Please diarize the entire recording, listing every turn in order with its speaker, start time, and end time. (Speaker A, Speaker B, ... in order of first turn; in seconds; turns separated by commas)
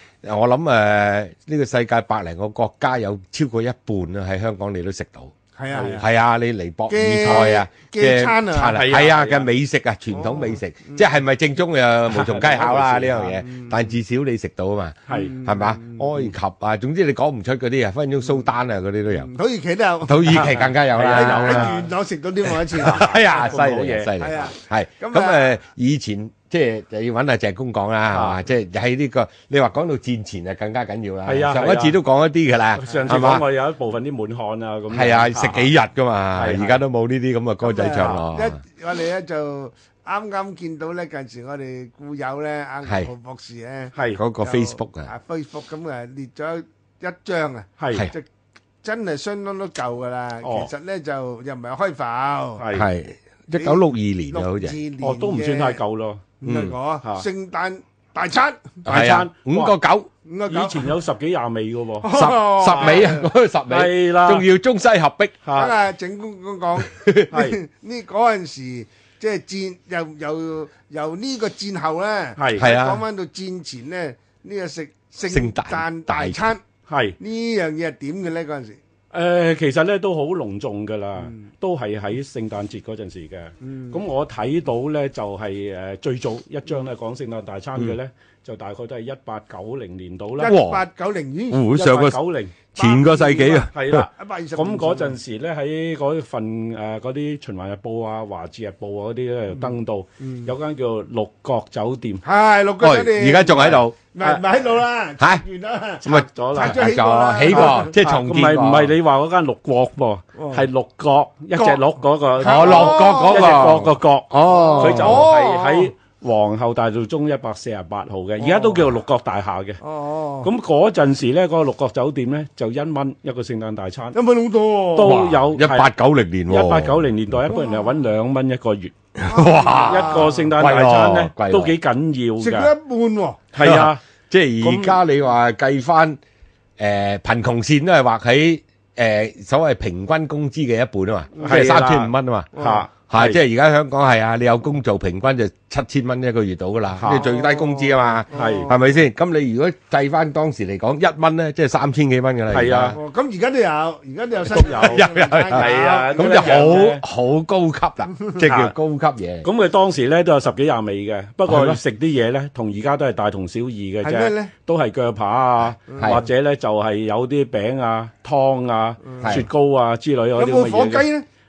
Speaker A: 0.2-19.3, Speaker B: 5.5-6.1, Speaker C: 5.7-6.0, Speaker B: 6.9-8.8, Speaker C: 7.2-7.6, Speaker C: 8.7-9.5, Speaker B: 10.1-11.2, Speaker C: 12.1-13.3, Speaker B: 13.2-14.0, Speaker B: 15.1-16.2, Speaker C: 15.1-15.4, Speaker B: 19.2-20.6, Speaker A: 20.1-21.8, Speaker C: 20.2-21.9, Speaker B: 21.1-23.6, Speaker A: 22.6-33.5, Speaker C: 22.8-24.5, Speaker B: 24.2-25.5, Speaker C: 28.1-28.4, Speaker C: 31.2-32.0, Speaker C: 32.7-35.7, Speaker A: 34.9-38.6, Speaker C: 36.3-36.8, Speaker B: 37.6-48.3, Speaker C: 38.0-38.2, Speaker C: 43.9-44.2, Speaker A: 44.2-45.1, Speaker C: 47.8-48.1, Speaker B: 48.8-52.6, Speaker C: 50.4-50.7, Speaker C: 52.6-52.9, Speaker A: 52.7-54.8, Speaker B: 53.5-55.8, Speaker C: 55.0-56.3, Speaker B: 56.4-58.9, Speaker A: 56.4-56.7, Speaker A: 58.9-60.1, Speaker C: 58.9-59.8, Speaker B: 60.2-60.9, Speaker C: 60.5-63.1, Speaker B: 62.0-63.3, Speaker A: 62.1-65.4, Speaker C: 63.7-64.5, Speaker C: 65.4-65.8, Speaker B: 65.5-76.6, Speaker A: 66.8-67.4, Speaker C: 67.3-67.6, Speaker C: 72.4-72.7, Speaker A: 72.5-73.0, Speaker A: 75.3-76.5, Speaker C: 76.9-77.2, Speaker B: 77.2-78.8, Speaker C: 79.1-90.6, Speaker B: 83.6-84.0, Speaker B: 90.4-91.7, Speaker A: 90.4-90.8, Speaker A: 91.5-92.2, Speaker C: 91.7-92.6, Speaker B: 92.7-95.2, Speaker A: 92.8-94.1, Speaker C: 93.7-102.2, Speaker B: 99.5-100.5, Speaker B: 102.2-106.0, Speaker A: 102.8-104.0, Speaker A: 105.2-105.4, Speaker C: 106.0-106.9, Speaker A: 106.0-108.9, Speaker B: 106.5-108.0, Speaker C: 107.4-119.8, Speaker B: 110.4-110.7, Speaker B: 111.5-113.5, Speaker A: 112.4-115.3, Speaker B: 114.4-115.9, Speaker B: 118.4-118.9, Speaker B: 119.8-120.5, Speaker C: 120.4-124.2, Speaker B: 124.1-125.2, Speaker C: 124.9-125.9, Speaker A: 125.0-127.0, Speaker C: 126.5-128.9, Speaker B: 127.5-127.9, Speaker A: 129.2-131.7, Speaker B: 129.2-130.6, Speaker C: 129.8-132.7, Speaker B: 132.4-133.5, Speaker C: 133.5-134.0, Speaker A: 133.6-136.2, Speaker C: 134.6-135.0, Speaker A: 136.8-142.6, Speaker B: 141.3-141.7, Speaker C: 141.4-143.4, Speaker B: 142.5-142.9, Speaker A: 143.1-153.0, Speaker C: 147.0-147.3, Speaker B: 147.1-148.9, Speaker C: 148.3-148.8, Speaker C: 152.5-153.0, Speaker B: 152.9-156.9, Speaker C: 154.5-157.0, Speaker A: 154.6-159.5, Speaker B: 158.1-158.5, Speaker C: 158.4-158.7, Speaker C: 159.4-171.1, Speaker A: 161.5-161.8, Speaker B: 164.0-164.5, Speaker B: 165.9-166.2, Speaker A: 166.0-166.2, Speaker B: 169.0-169.4, Speaker A: 169.2-169.5, Speaker B: 170.4-171.3